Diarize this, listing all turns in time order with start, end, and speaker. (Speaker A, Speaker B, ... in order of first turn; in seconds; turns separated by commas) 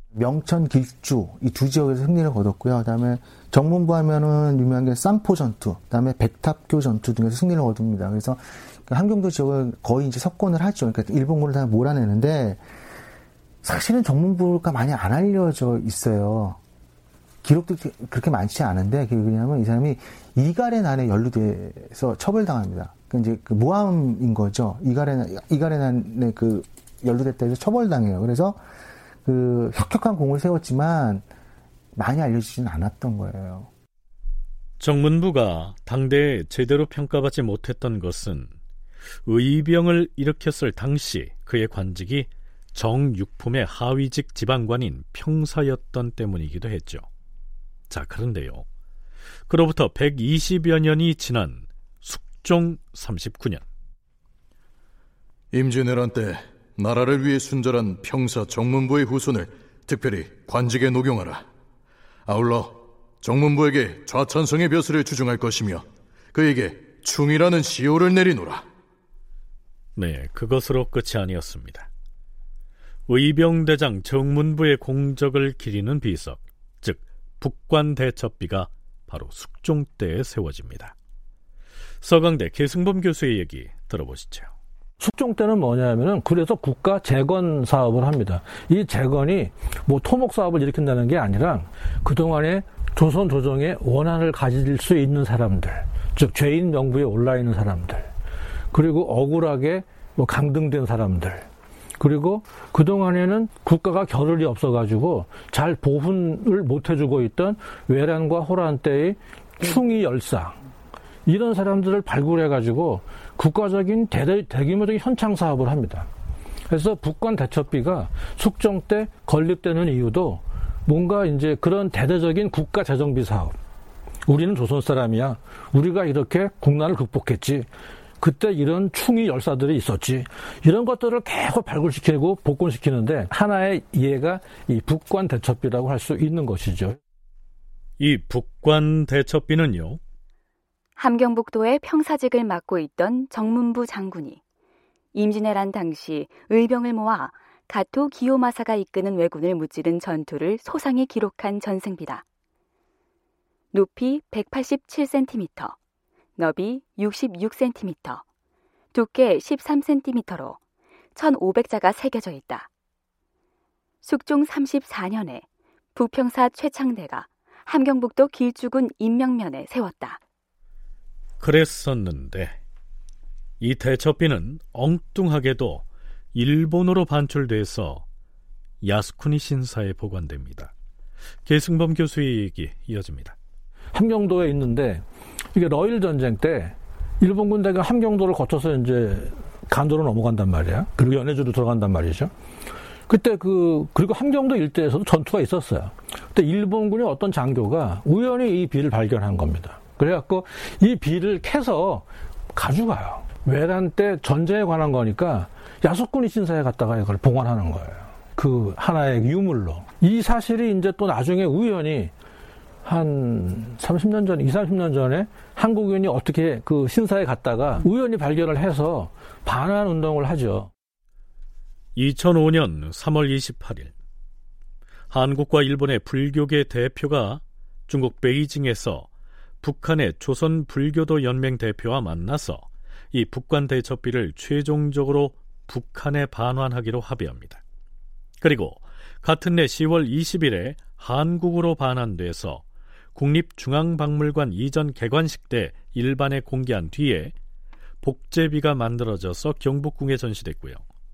Speaker A: 0.1-12.6, Speaker A: 13.6-16.6, Speaker A: 17.4-28.6, Speaker A: 29.2-31.2, Speaker A: 31.9-33.7, Speaker B: 34.8-38.5, Speaker B: 39.3-47.0, Speaker B: 47.9-48.6, Speaker B: 49.5-53.6, Speaker C: 55.5-61.4, Speaker C: 62.2-68.6, Speaker B: 70.0-71.9, Speaker B: 73.1-80.9, Speaker B: 82.0-84.5, Speaker D: 85.0-98.1, Speaker D: 98.7-101.4, Speaker D: 102.0-110.5, Speaker D: 111.2-116.1, Speaker D: 116.7-123.5, Speaker D: 124.3-127.7, Speaker D: 128.2-137.0, Speaker B: 138.0-140.0, Speaker E: 141.0-144.4, Speaker E: 145.1-152.2, Speaker E: 153.7-155.8, Speaker E: 156.4-158.2, Speaker E: 158.9-160.6, Speaker E: 161.1-162.7, Speaker E: 164.0-170.2, Speaker B: 171.4-172.6, Speaker B: 173.6-178.0, Speaker B: 178.8-180.7, Speaker B: 181.4-183.3, Speaker D: 183.9-185.0, Speaker D: 185.5-192.3, Speaker D: 193.1-212.1, Speaker D: 212.8-220.7, Speaker B: 221.9-223.9, Speaker B: 225.1-229.1, Speaker B: 229.6-237.6, Speaker B: 238.4-247.3, Speaker B: 248.0-250.8